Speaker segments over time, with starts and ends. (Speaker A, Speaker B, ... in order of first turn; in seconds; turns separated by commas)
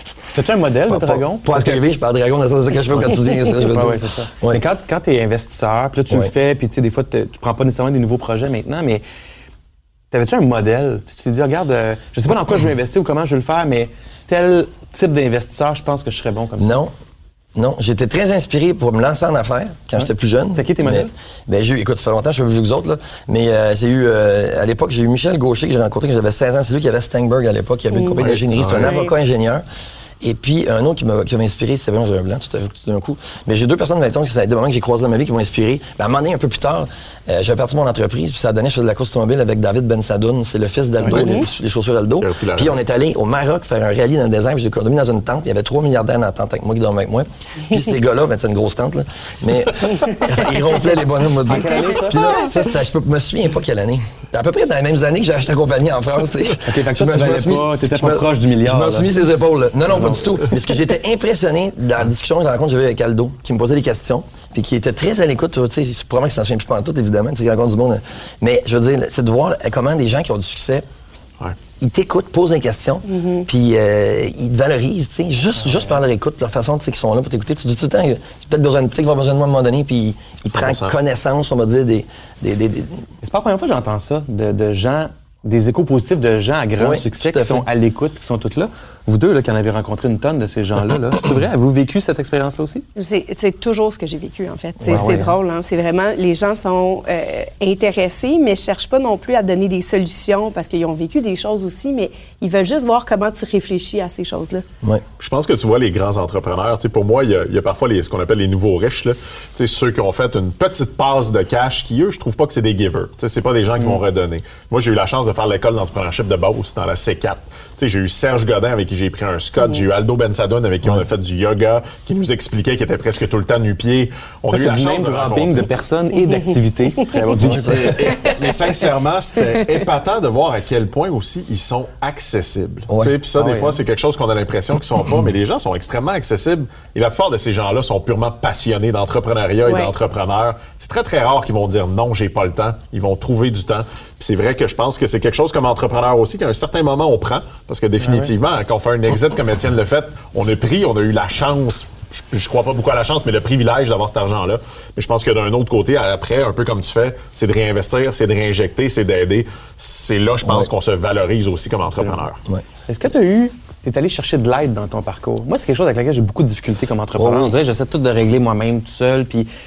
Speaker A: 0.3-1.8, Speaker B: 0.9-4.6, Speaker A: 3.0-9.0, Speaker A: 10.1-16.8, Speaker B: 16.6-16.9, Speaker B: 17.5-29.6, Speaker A: 19.9-21.1, Speaker C: 27.9-28.2, Speaker D: 28.2-28.9, Speaker C: 28.8-29.1, Speaker B: 30.2-70.8, Speaker C: 41.1-41.4, Speaker D: 42.2-42.8, Speaker A: 51.5-52.4, Speaker A: 56.6-59.1, Speaker B: 71.8-83.0, Speaker C: 73.1-73.4, Speaker D: 80.5-80.9, Speaker A: 83.2-92.8, Speaker B: 86.8-87.6, Speaker C: 93.0-104.6, Speaker B: 94.8-95.3, Speaker A: 94.9-95.3, Speaker D: 105.2-125.7, Speaker A: 124.5-128.2, Speaker B: 127.3-128.1, Speaker D: 127.7-162.4, Speaker A: 133.3-133.8, Speaker C: 139.6-139.9, Speaker A: 148.0-148.3, Speaker B: 160.4-160.7, Speaker A: 162.9-169.5, Speaker B: 167.2-167.5